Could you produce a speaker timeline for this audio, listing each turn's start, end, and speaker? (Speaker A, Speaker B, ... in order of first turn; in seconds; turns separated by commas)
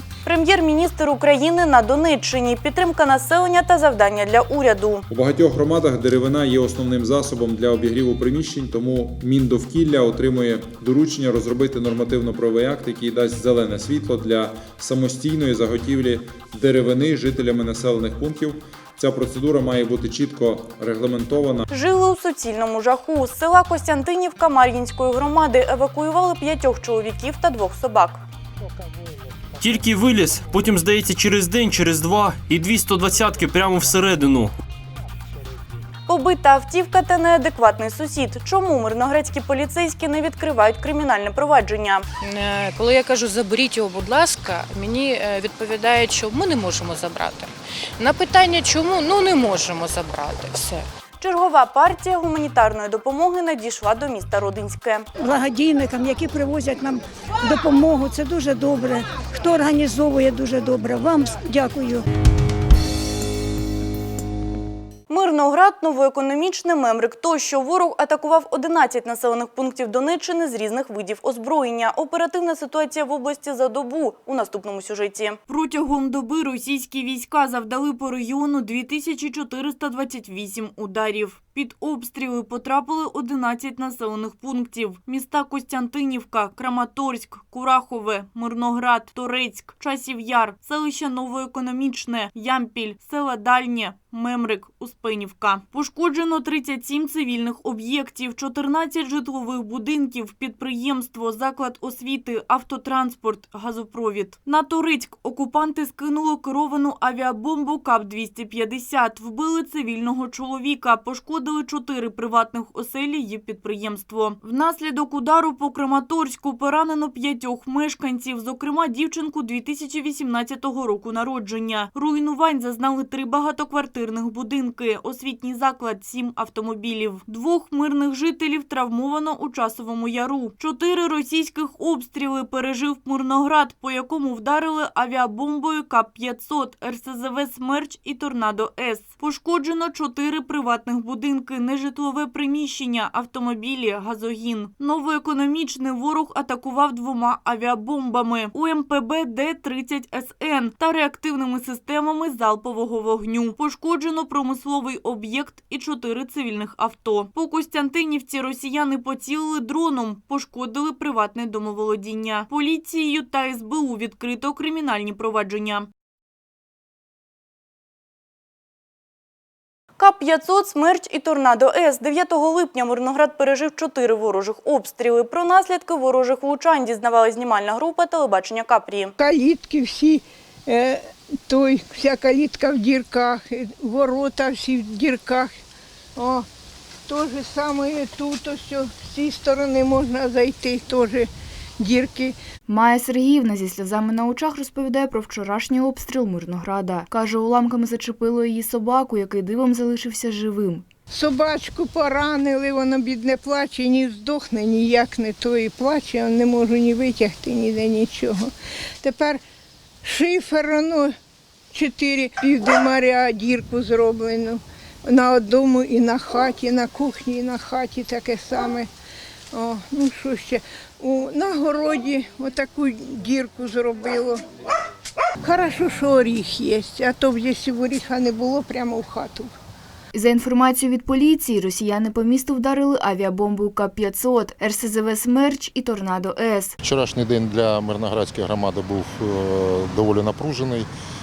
Speaker A: 0.2-5.0, Speaker B: 5.1-21.6, Speaker A: 21.7-28.2, Speaker C: 29.6-34.5, Speaker A: 36.1-42.0, Speaker D: 42.2-50.8, Speaker A: 51.2-55.0, Speaker E: 55.2-62.0, Speaker A: 65.1-165.9, Speaker A: 170.0-179.1, Speaker F: 179.2-185.6, Speaker F: 186.2-186.4, Speaker F: 187.1-191.3, Speaker F: 191.8-192.3, Speaker G: 192.7-200.8, Speaker F: 201.1-208.5, Speaker F: 209.0-209.4, Speaker F: 210.0-211.1, Speaker F: 211.7-218.9, Speaker F: 219.5-224.4, Speaker F: 225.4-229.5, Speaker G: 230.1-236.8, Speaker H: 236.8-240.9